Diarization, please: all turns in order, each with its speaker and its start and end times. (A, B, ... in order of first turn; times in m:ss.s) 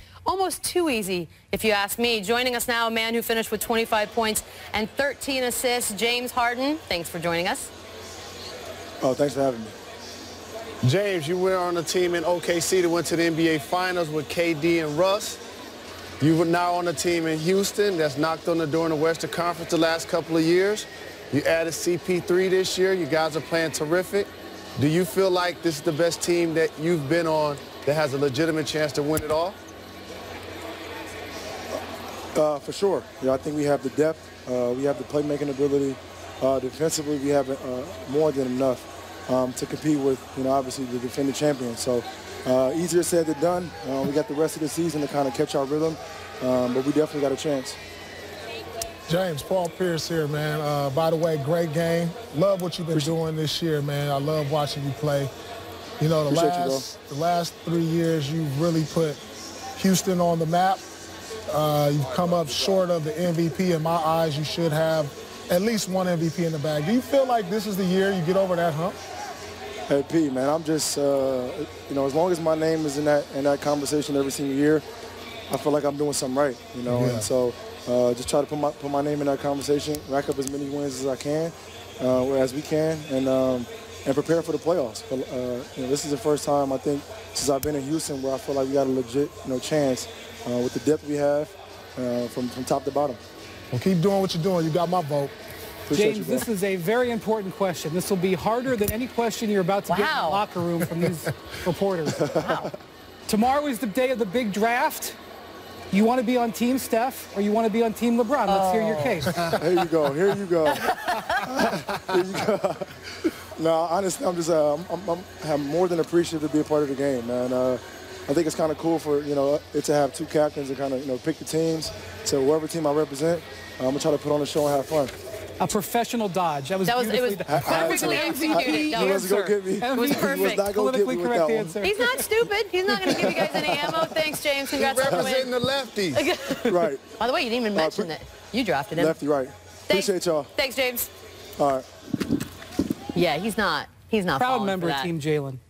0:00.2-0:07.7 A
0:09.0-0:09.8 B
0:10.8-0:15.4 C
0:16.2-0:29.6 C
0:32.3-0:47.8 B
0:49.1-0:55.3 D
0:56.0-0:59.2 D
0:56.3-0:56.9 B
0:59.8-1:00.8 D
1:01.5-1:09.0 D
1:09.9-1:14.8 B
1:15.5-1:33.2 B
1:16.9-1:17.3 D
1:33.7-1:35.3 D
1:35.9-1:36.5 B
1:35.9-1:42.7 E
1:39.9-1:40.4 A
1:42.3-1:42.7 A
1:42.3-1:42.7 B
1:43.3-1:45.2 E
1:45.9-1:49.4 E
1:48.5-1:49.3 A
1:49.4-1:49.6 C
1:49.5-2:05.2 B
1:50.7-1:51.4 A
2:05.6-2:12.3 E
2:06.8-2:10.7 A
2:07.5-2:12.2 B
2:11.8-2:15.6 A
2:12.9-2:13.4 E
2:13.0-2:14.4 B
2:14.7-2:16.2 C
2:15.0-2:15.4 B
2:16.1-2:19.2 A
2:16.6-2:17.1 B
2:17.7-2:18.1 B
2:18.9-2:20.5 B
2:19.9-2:21.1 A
2:21.6-2:21.9 B
2:23.1-2:25.1 A
2:24.4-2:25.6 E